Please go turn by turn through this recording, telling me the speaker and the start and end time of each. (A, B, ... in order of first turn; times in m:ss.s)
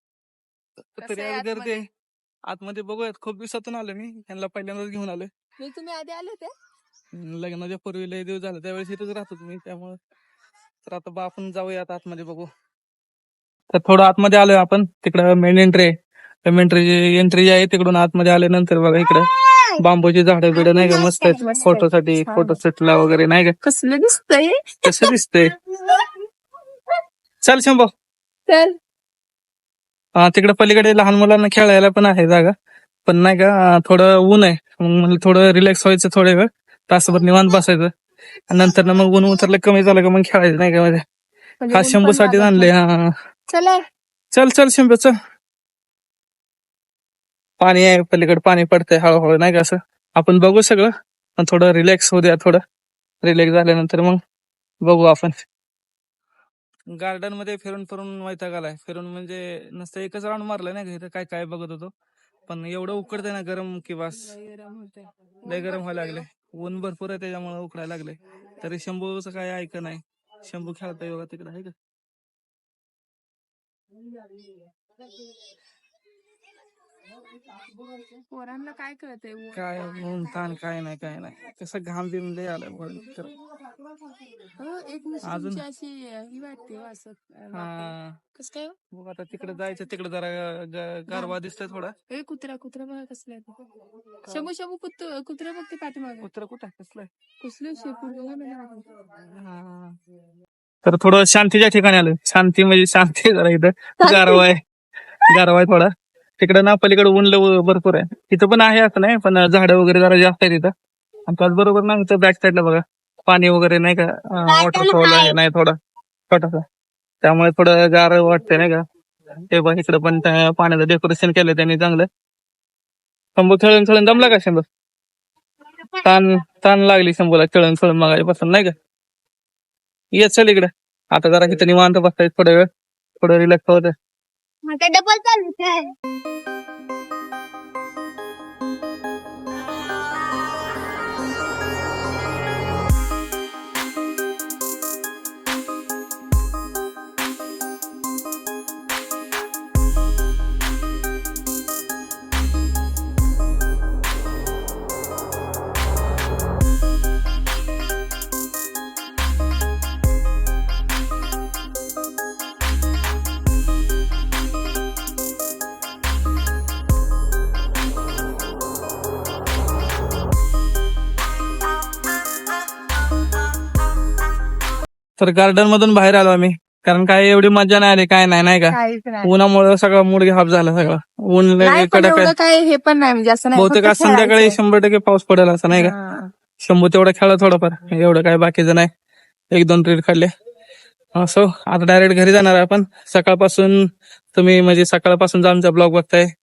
0:01.0-0:01.9 A
0:01.0-0:01.8 B
0:02.5-0:05.3 A
0:05.6-0:06.5 B
0:07.1-0:10.0 A
0:10.8-0:12.5 A
0:13.7-0:15.9 A
0:16.4-0:23.5 A
0:20.5-0:22.6 B
0:23.6-0:25.1 B
0:24.8-0:25.5 A
0:27.4-0:27.9 A
0:28.5-0:28.8 B
0:30.2-0:32.5 A
0:33.0-0:37.9 A
0:38.5-0:41.0 A
0:41.6-0:42.7 B
0:41.7-0:43.1 A
0:43.5-0:43.8 B
0:44.3-0:45.1 A
0:47.6-0:52.6 A
0:53.2-0:54.2 A
0:54.8-0:55.4 A
0:56.9-1:01.9 A
1:02.5-1:04.3 A
1:04.1-1:06.2 B
1:05.4-1:11.7 A
1:18.1-1:20.3 B
1:19.5-1:23.3 A
1:24.5-1:28.8 B
1:25.2-1:25.6 A
1:27.5-1:28.2 A
1:28.9-1:31.9 A
1:31.1-1:31.4 B
1:32.1-1:33.6 B
1:34.2-1:36.3 B
1:36.2-1:37.1 A
1:37.4-1:38.9 B
1:39.3-1:39.9 A
1:40.8-1:44.6 A
1:44.0-1:44.4 B
1:45.2-1:50.7 A
1:51.3-1:55.8 A
1:54.7-1:55.3 B
1:56.3-1:56.6 A
1:57.2-1:58.8 A
1:59.4-2:02.1 A
2:03.4-2:04.6 A
2:06.0-2:08.7 A
2:10.1-2:12.7 A
2:13.2-2:13.9 A
2:14.7-2:15.9 B
2:55.2-3:02.3 A
2:58.7-2:59.3 B
3:01.6-3:04.6 B
3:03.6-3:05.9 A
3:05.7-3:06.3 B
3:06.6-3:08.9 A
3:09.5-3:10.3 A
3:11.2-3:16.3 A